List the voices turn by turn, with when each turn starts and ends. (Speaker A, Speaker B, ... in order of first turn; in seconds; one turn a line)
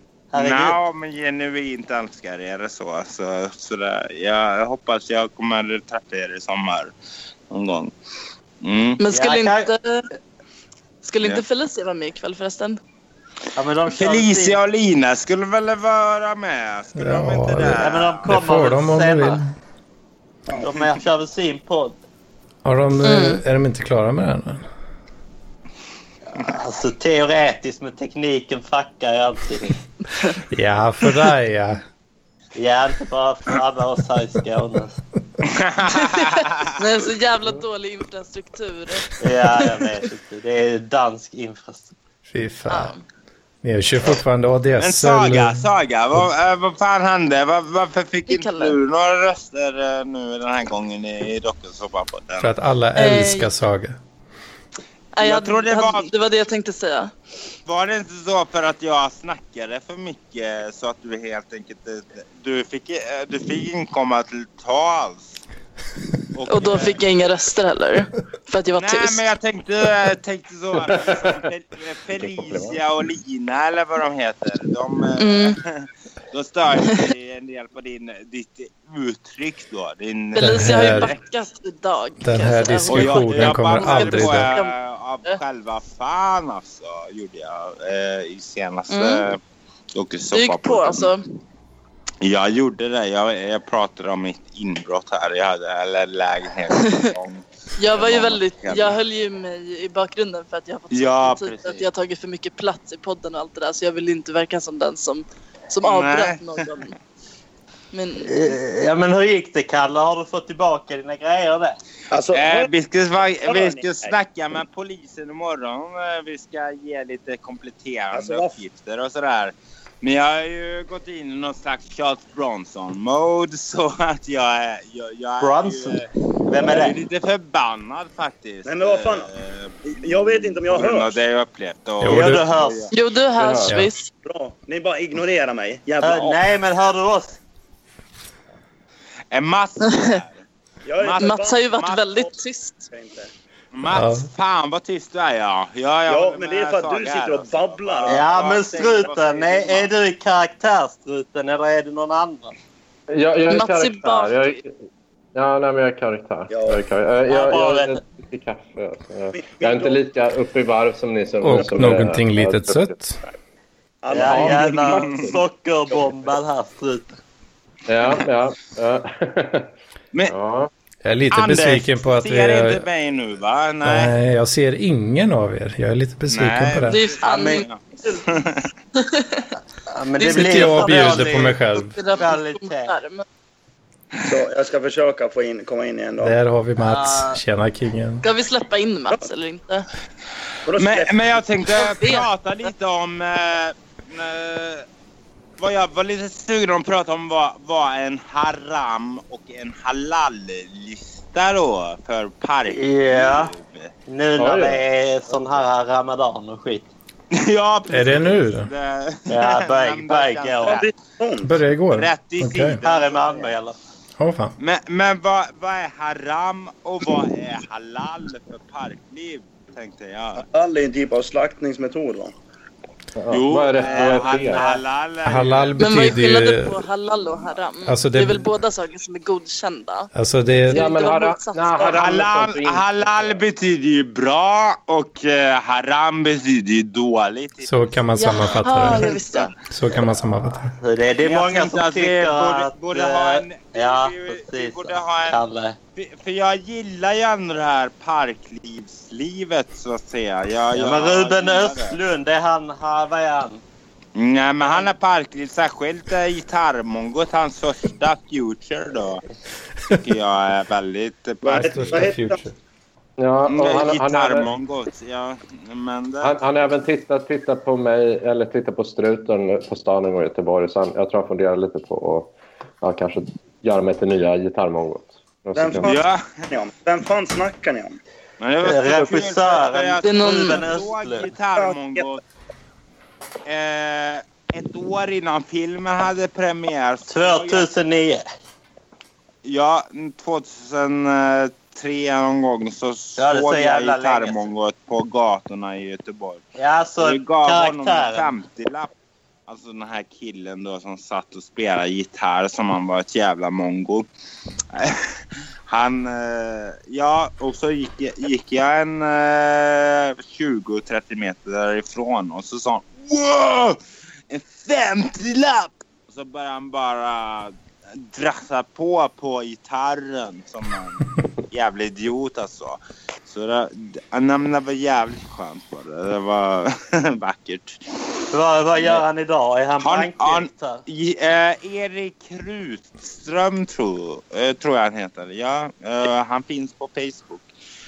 Speaker A: 0.3-0.8
Speaker B: 0.3-6.9
Speaker B: 7.5-7.9
Speaker B: 8.6-9.0
Speaker C: 9.0-10.1
Speaker A: 9.1-9.7
Speaker C: 11.0-12.8
Speaker A: 13.6-14.6
Speaker B: 13.9-18.3
Speaker D: 17.0-19.5
Speaker A: 17.8-19.4
Speaker A: 20.6-22.0
Speaker D: 22.6-24.6
Speaker C: 23.0-23.4
Speaker A: 26.3-29.8
Speaker D: 30.5-31.8
Speaker A: 32.6-35.0
Speaker B: 35.4-36.8
Speaker C: 35.9-39.1
Speaker A: 39.2-41.9
Speaker D: 42.3-42.9
Speaker C: 42.7-43.0
Speaker D: 43.6-45.6
Speaker B: 44.8-52.5
Speaker C: 48.3-48.8
Speaker D: 52.4-54.0
Speaker C: 53.0-53.5
Speaker C: 55.1-57.1
Speaker B: 55.2-56.1
Speaker B: 57.7-65.4
Speaker B: 66.3-67.0
Speaker C: 66.5-69.2
Speaker B: 68.8-81.3
Speaker E: 72.2-72.8
Speaker C: 75.2-75.6
Speaker C: 80.3-84.7
Speaker D: 80.4-81.1
Speaker D: 82.2-84.5
Speaker B: 82.9-89.4
Speaker C: 88.9-89.3
Speaker B: 89.9-91.1
Speaker C: 90.3-91.2
Speaker B: 92.2-99.0
Speaker C: 96.7-97.1
Speaker C: 97.8-106.9
Speaker B: 100.9-101.8
Speaker B: 105.8-106.8
Speaker C: 107.9-108.6
Speaker A: 108.2-111.8
Speaker F: 112.1-112.7
Speaker B: 112.3-126.1
Speaker F: 113.5-114.1
Speaker F: 118.1-118.5
Speaker A: 125.4-127.0
Speaker B: 126.6-132.9
Speaker F: 128.7-129.3
Speaker F: 129.8-131.1
Speaker D: 132.0-132.4
Speaker A: 132.1-132.8
Speaker C: 132.9-134.1
Speaker E: 133.4-133.7
Speaker D: 133.7-133.9
Speaker F: 134.2-136.4
Speaker A: 136.0-137.4
Speaker B: 139.3-140.4
Speaker C: 139.8-140.2
Speaker F: 140.8-142.3
Speaker B: 141.0-142.0
Speaker C: 141.2-142.8
Speaker F: 142.9-143.3
Speaker B: 143.7-149.9
Speaker D: 143.9-144.3
Speaker F: 146.1-148.3
Speaker A: 148.1-152.6
Speaker E: 153.1-154.7
Speaker C: 153.5-154.6
Speaker E: 155.3-162.9
Speaker F: 156.5-156.8
Speaker A: 157.3-158.0
Speaker F: 159.3-160.0
Speaker D: 161.4-163.2
Speaker F: 161.6-161.8
Speaker F: 164.0-165.4
Speaker A: 164.1-167.1
Speaker E: 164.2-165.0
Speaker F: 165.9-166.3
Speaker E: 167.9-169.7
Speaker E: 170.2-170.7
Speaker D: 171.1-172.8
Speaker B: 171.3-174.1
Speaker D: 173.8-177.0
Speaker B: 176.3-178.7
Speaker C: 176.9-178.2
Speaker A: 177.2-177.6
Speaker C: 178.9-179.5
Speaker A: 179.9-181.6
Speaker C: 180.2-183.2
Speaker D: 180.3-182.0
Speaker A: 182.2-182.9
Speaker F: 184.2-186.4
Speaker D: 186.2-188.2
Speaker A: 186.8-187.4
Speaker C: 188.2-189.9
Speaker F: 190.7-191.2
Speaker B: 190.8-194.8
Speaker C: 191.8-192.2
Speaker B: 195.6-203.9
Speaker A: 202.7-203.5
Speaker A: 204.1-206.9
Speaker E: 204.4-204.8
Speaker B: 207.3-210.9
Speaker D: 207.9-208.7
Speaker A: 209.3-210.8
Speaker F: 210.7-211.5
Speaker D: 211.4-212.8
Speaker B: 211.9-213.2
Speaker A: 212.8-213.8
Speaker F: 213.2-213.5
Speaker D: 214.2-214.6
Speaker B: 214.6-220.4
Speaker F: 220.4-222.3
Speaker E: 223.2-224.7
Speaker B: 223.3-226.2
Speaker A: 223.8-224.8
Speaker D: 225.2-226.8
Speaker C: 225.8-230.1
Speaker D: 227.8-228.4
Speaker D: 230.1-230.9
Speaker C: 230.7-232.0
Speaker E: 230.7-233.4
Speaker B: 231.8-237.7
Speaker D: 237.7-240.7
Speaker C: 238.2-239.5
Speaker B: 238.5-239.5
Speaker A: 240.8-245.8
Speaker B: 241.2-245.4
Speaker B: 245.9-251.9
Speaker A: 250.7-253.6
Speaker B: 254.2-259.2
Speaker B: 259.9-262.1
Speaker F: 261.4-262.4
Speaker D: 261.5-262.6
Speaker E: 263.2-264.5
Speaker B: 263.4-266.4
Speaker E: 266.2-275.9
Speaker F: 275.6-278.0
Speaker B: 275.8-276.5
Speaker B: 278.4-282.2
Speaker A: 278.6-281.3
Speaker C: 280.0-280.6
Speaker F: 281.6-282.0
Speaker B: 283.4-287.7
Speaker A: 287.1-288.2
Speaker B: 289.4-296.4
Speaker A: 293.2-294.5
Speaker A: 296.6-298.3
Speaker B: 297.0-298.9
Speaker B: 299.5-304.1
Speaker B: 304.7-327.8
Speaker A: 328.3-330.8
Speaker B: 328.8-329.0
Speaker B: 329.8-337.4